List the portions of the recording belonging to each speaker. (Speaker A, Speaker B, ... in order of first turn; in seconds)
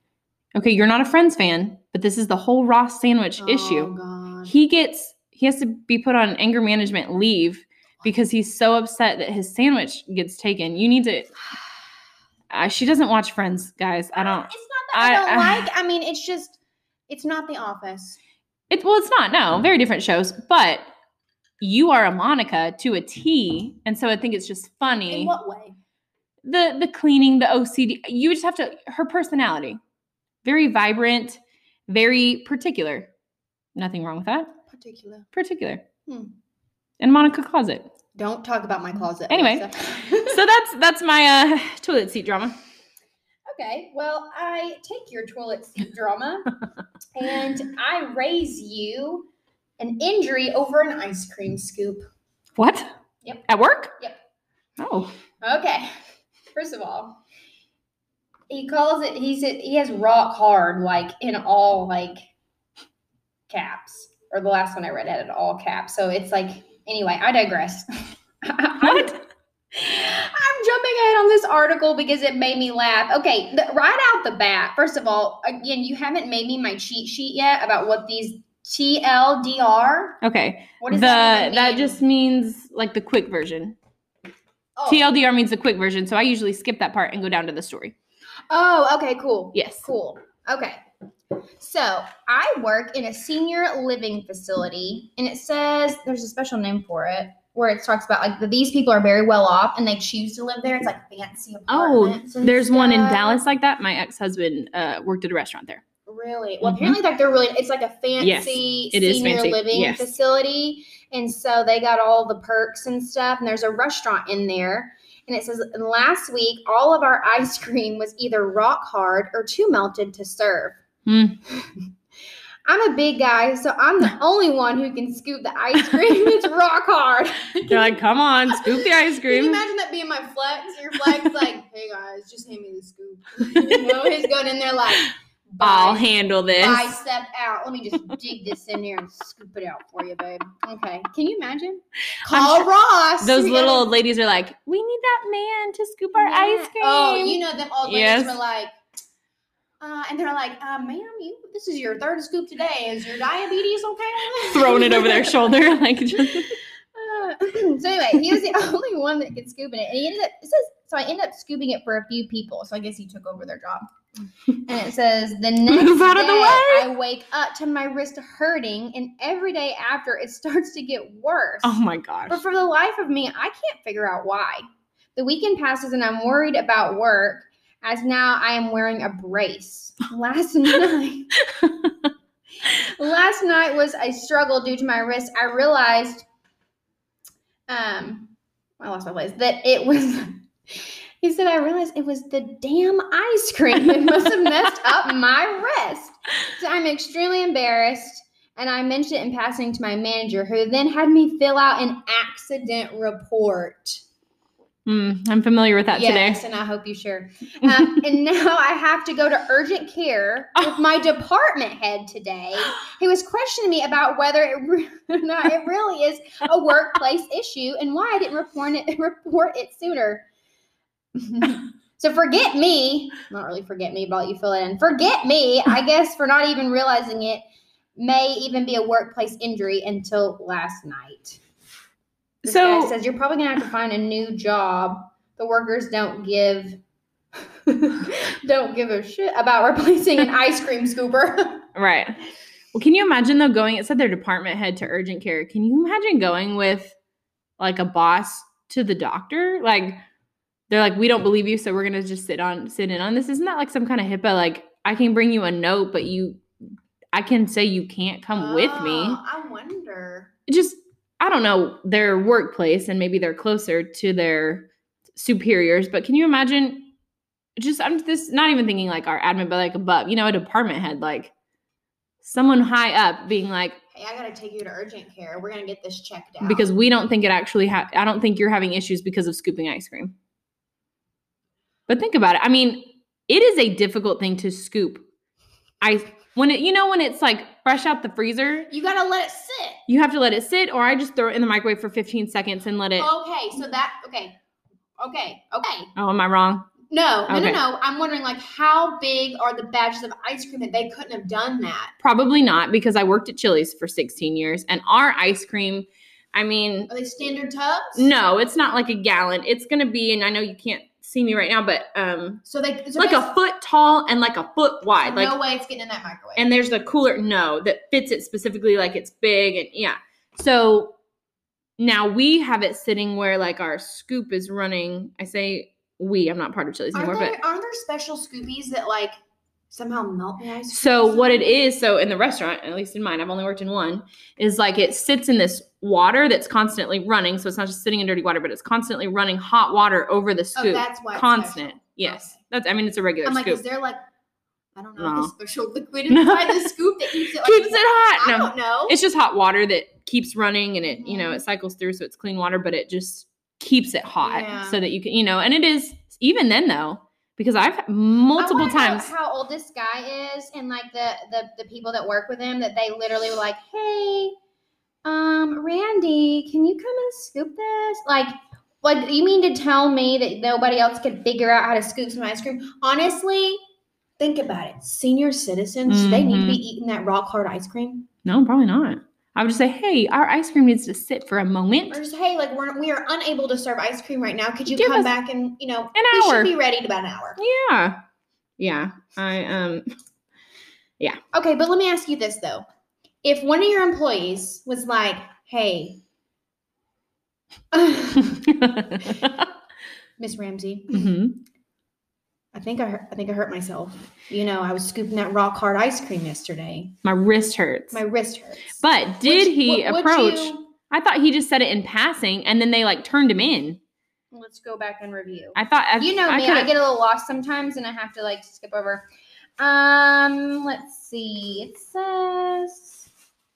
Speaker A: 0.6-3.9, 4.5-11.3, 12.5-15.7, 18.7-20.9, 21.6-25.3, 26.4-29.8, 30.4-33.1, 33.8-34.5, 35.3-35.9, 37.0-37.9, 39.3-42.6, 52.6-52.9, 53.5-54.0, 54.8-55.1, 68.8-69.2, 80.2-83.8, 84.9-88.0, 89.5-89.9, 101.7-105.8, 106.6-107.0, 108.2-110.1, 121.1-121.4, 127.7-129.6, 133.5-134.1, 135.6-137.0, 142.3-142.7, 143.2-148.4, 154.3-156.6, 165.7-166.9, 171.6-172.4, 181.6-181.9, 204.9-206.4, 207.6-207.9, 232.4-232.9, 241.8-242.2, 242.7-246.9, 247.6-250.0, 250.7-256.4, 257.1-259.2, 260.5-266.9, 267.6-271.3, 272.2-273.8, 276.4-280.1, 281.9-285.1, 285.8-288.7, 289.9-293.1, 296.0-296.7, 297.3-297.6, 302.0-306.9, 307.9-312.4, 313.0-315.4, 316.4-320.9, 321.8-327.4, 330.7-343.6, 345.0-345.3, 346.1-359.1, 375.9-376.6, 378.2-382.0, 384.7-385.1, 385.9-386.5, 387.4-388.0, 388.6-389.9, 398.3-399.5, 400.9-401.4, 407.1-408.0, 408.8-413.8, 415.6-416.7
Speaker B: 3.4-4.5, 14.2-16.6, 17.1-18.2, 25.1-25.8, 34.7-35.3, 36.1-36.3, 38.1-40.4, 43.5-46.5, 47.1-49.3, 49.8-52.0, 55.4-55.9, 56.5-57.2, 58.5-62.2, 63.5-67.9, 68.4-69.2, 69.7-80.2, 80.8-82.0, 84.8-85.1, 88.5-90.8, 91.6-103.4, 106.1-120.8, 122.7-143.9, 146.2-148.7, 149.8-155.5, 156.2-163.9, 164.5-174.6, 175.2-181.4, 182.7-186.3, 187.7-204.0, 205.9-220.2, 221.2-227.4, 228.0-231.4, 232.4-236.8, 237.7-241.7, 258.3-260.3, 273.9-276.7, 288.7-289.8, 293.0-294.4, 295.0-295.9, 296.9-301.9, 306.9-308.1, 312.4-313.3, 315.0-316.5, 326.9-329.2, 329.7-331.6, 340.6-342.4, 343.2-344.0, 344.8-349.0, 351.0-351.4, 354.2-354.8, 358.4-364.4, 365.1-373.6, 374.2-378.1, 381.9-387.4, 391.3-392.6, 393.2-396.0, 397.7-398.5, 400.2-401.1, 402.5-406.9, 407.9-410.7, 414.3-419.1, 419.6-423.1